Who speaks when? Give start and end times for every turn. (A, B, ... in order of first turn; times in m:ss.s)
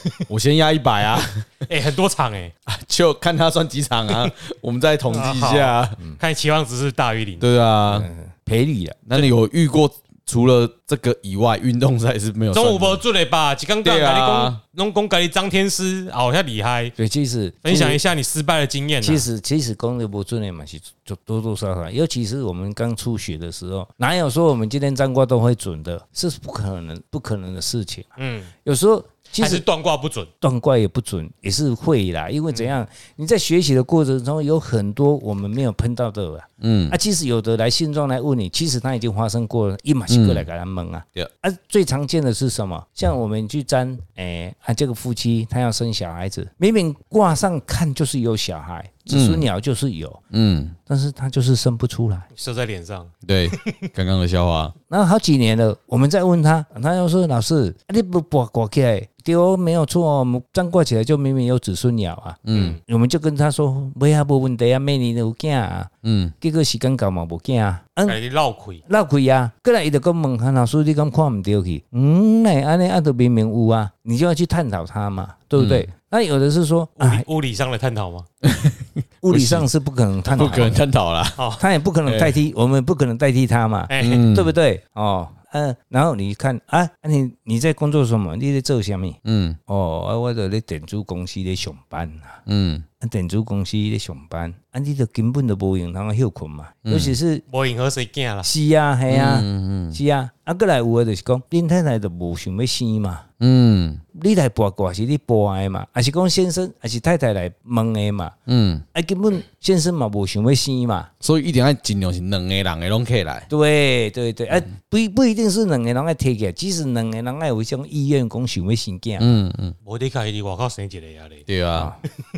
0:00.3-0:01.5 A
0:01.7-0:02.5 B
0:02.7-0:06.0 A
0:05.1-0:07.5 B
0:07.4-0:08.1 A
0:07.9-0:09.0 C
0:09.1-0:13.0 A
0:12.5-0:17.0 B
0:13.8-0:14.6 A
0:17.0-0:18.0 C
0:17.6-0:19.2 B
0:19.0-0:29.6 C
0:28.2-0:28.5 B
0:29.4-0:30.3 B
0:30.4-0:50.2 C
0:36.6-0:37.0 A
0:40.1-0:40.5 A
0:49.1-0:49.5 A
0:50.3-0:50.8 A
0:50.9-0:52.3 C
0:52.3-0:53.7 B
0:53.2-0:54.8 A
0:54.9-1:08.2 C
1:02.5-1:02.8 A
1:02.5-1:02.8 B
1:06.0-1:06.3 A
1:08.1-1:08.8 B
1:08.9-1:17.2 C
1:15.6-1:15.9 A
1:17.0-1:18.3 B
1:18.4-1:19.7 A
1:19.2-1:20.8 C
1:20.3-1:21.4 A
1:21.4-1:21.6 B
1:21.6-1:32.4 C
1:22.1-1:22.4 A
1:23.9-1:24.2 B
1:24.0-1:24.5 A
1:29.2-1:29.6 A
1:32.5-1:32.9 A
1:33.0-1:37.4 C
1:36.9-1:37.2 A
1:37.5-1:38.5 B
1:38.4-1:43.3 C
1:39.1-1:40.0 A
1:43.4-1:44.0 A
1:44.1-1:48.4 C
1:48.5-1:48.8 A
1:48.9-1:51.1 C
1:51.2-1:53.5 A
1:53.5-1:59.3 C
1:59.2-1:59.8 A
1:59.8-2:01.5 B
2:01.5-2:01.9 A